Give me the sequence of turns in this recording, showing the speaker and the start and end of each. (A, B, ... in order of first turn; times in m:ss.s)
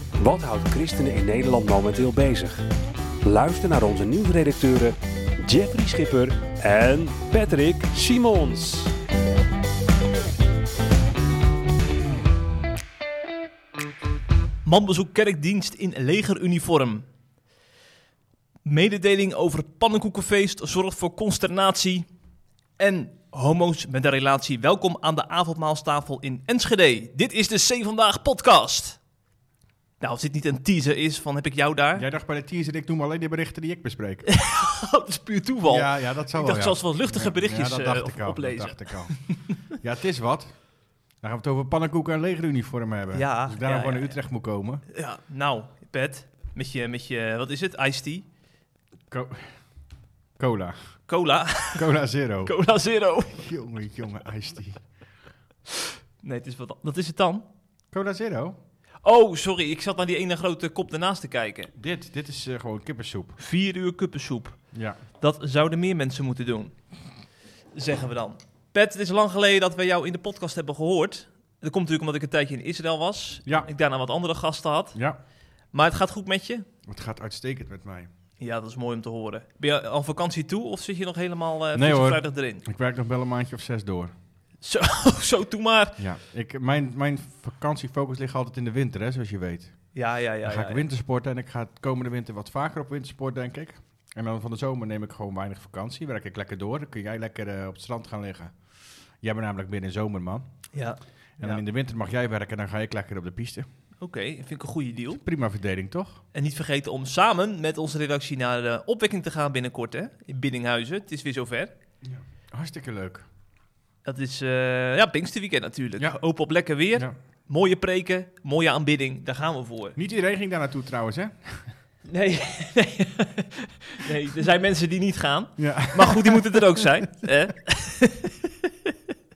0:00.2-0:02.6 A
0:03.2-0:08.9 A
0:14.6-0:17.1 B
0:18.6-0:22.1 B
0:22.8-0:29.0 B
0:30.0-0:32.0 B
0:31.9-0:34.3 C
0:34.3-0:39.5 B
0:35.7-0:40.7 C
0:41.2-0:44.8 C
0:43.1-0:44.2 B
0:44.9-0:48.3 B
0:49.1-0:49.5 C
0:50.4-0:50.9 C
0:51.1-0:51.9 B
0:51.8-0:52.5 C
0:52.4-0:53.5 B
0:53.3-0:54.8 C
0:56.2-0:57.4 B
0:57.9-0:58.6 C
0:59.0-1:01.7 B
1:01.7-1:03.4 C
1:03.4-1:04.6 B
1:04.7-1:05.0 C
1:05.1-1:06.7 B
1:07.7-1:15.0 B
1:15.7-1:16.7 B
1:16.9-1:18.1 C
1:18.4-1:22.6 B
1:21.7-1:24.1 C
1:24.6-1:26.0 B
1:26.0-1:38.6 C
1:29.9-1:30.8 B
1:39.2-1:40.4 C
1:40.7-1:41.6 B
1:41.4-1:43.7 C
1:44.0-1:45.2 B
1:45.2-1:46.2 C
1:46.3-1:51.7 B
1:52.0-1:53.2 C
1:54.0-2:00.0 B
2:00.0-2:01.7 C
2:02.0-2:08.9 B
2:05.6-2:06.8 C